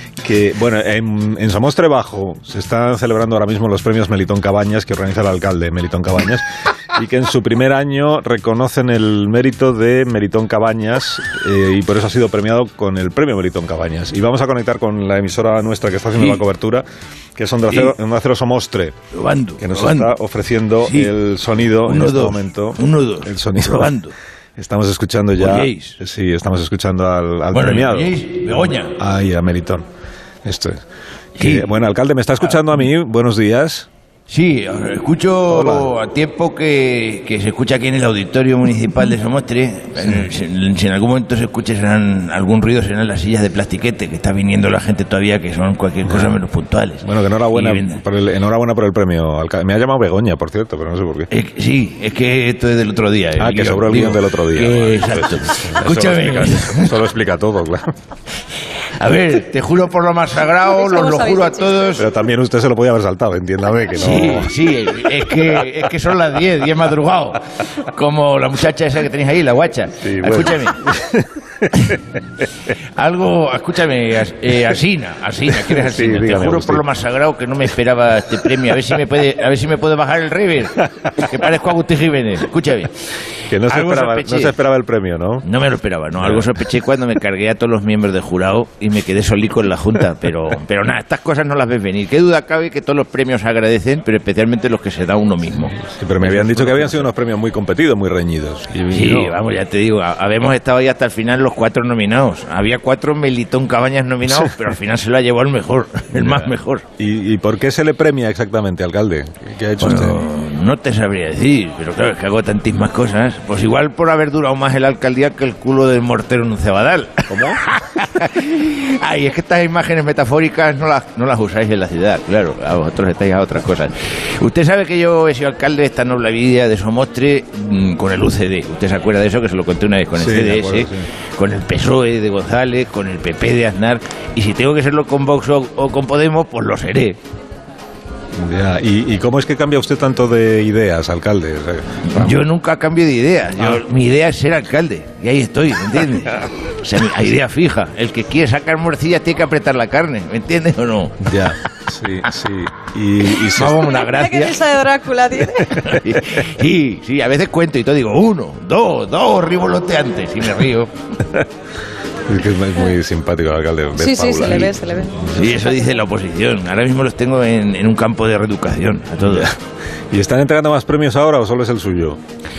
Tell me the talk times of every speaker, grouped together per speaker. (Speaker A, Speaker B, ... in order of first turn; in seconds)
Speaker A: 0.2-18.9, 19.6-23.9, 24.6-29.9, 30.4-30.8, 31.4-33.9, 35.5-35.9, 40.0-40.3, 46.0-46.4, 47.0-51.3, 53.4-57.9, 62.0-64.6, 70.0-72.0, 75.6-76.8, 83.5-85.5, 86.2-86.5, 95.8-99.3, 106.2-110.2, 117.3-117.6, 130.1-131.1, 138.3-142.3, 151.2-153.9, 162.3-165.4, 169.2-169.6, 170.1-172.2
Speaker B: 19.1-20.1, 20.8-21.1, 21.8-24.1, 25.4-25.9, 27.5-28.9, 31.4-31.7, 34.3-48.0, 51.3-57.0, 59.0-62.0, 63.9-70.8, 73.0-82.9, 83.7-84.5, 85.4-97.0, 98.9-106.8, 109.8-137.2, 142.1-151.2, 153.5-154.6, 155.8-160.9, 165.2-169.5
Speaker C: 60.7-62.0, 153.8-155.9, 164.0-165.4